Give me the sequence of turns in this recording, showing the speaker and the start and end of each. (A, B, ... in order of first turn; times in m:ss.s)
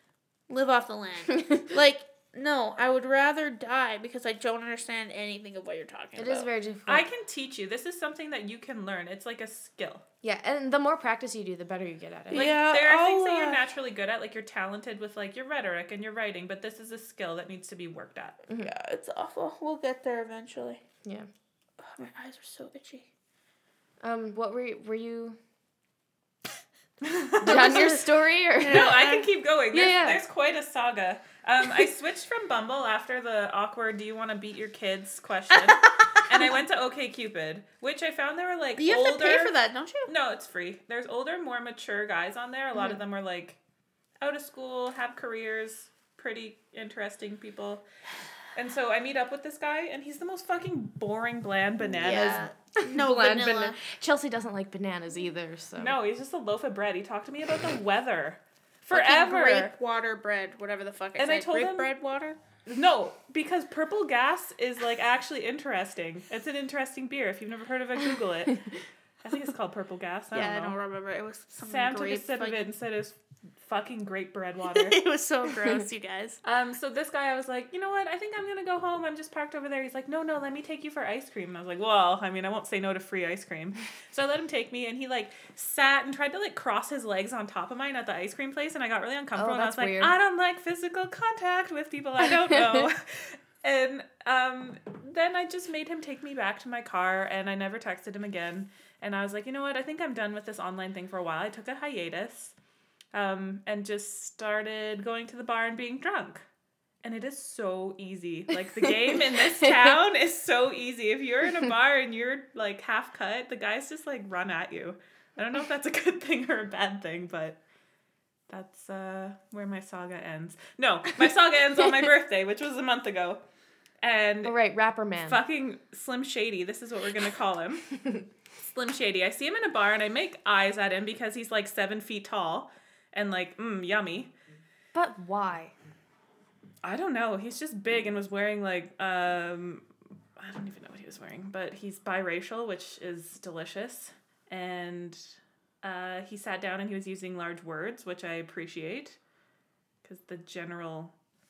0:00.5-0:06.5 A
0:06.2-0:07.0 B
0:06.8-0:10.0 C
0:10.2-0:12.5 B
0:12.3-0:13.6 A
0:12.3-0:18.4 C
0:18.6-0:20.8 A
0:21.8-0:23.1 A
0:24.0-0:25.4 B
0:27.0-0:39.5 C
0:27.4-0:29.0 B
0:28.6-0:29.3 A
0:29.7-0:30.2 B
0:35.9-0:36.2 A
0:38.8-0:40.1 A
0:40.1-0:43.6 C
0:44.2-0:47.8 C
0:48.5-0:52.5 C
0:51.9-0:53.8 A
0:52.3-0:56.0 B
0:55.8-0:59.7 C
0:58.9-1:02.4 A
1:01.2-1:01.9 C
1:02.6-1:08.7 C
1:09.2-1:10.8 C
1:10.3-1:12.7 A
1:11.6-1:15.0 C
1:14.7-1:16.4 A
1:16.4-1:42.5 C
1:29.3-1:30.1 B
1:43.1-1:46.4 C
1:47.0-1:57.6 C
1:48.8-1:50.0 B
1:58.5-2:03.4 C
2:04.0-2:04.6 C
2:04.4-2:05.4 B
2:05.2-2:08.0 C
2:08.6-2:14.3 C
2:14.9-2:15.7 B
2:16.8-2:19.8 C
2:20.4-2:29.2 C
2:30.0-2:31.1 C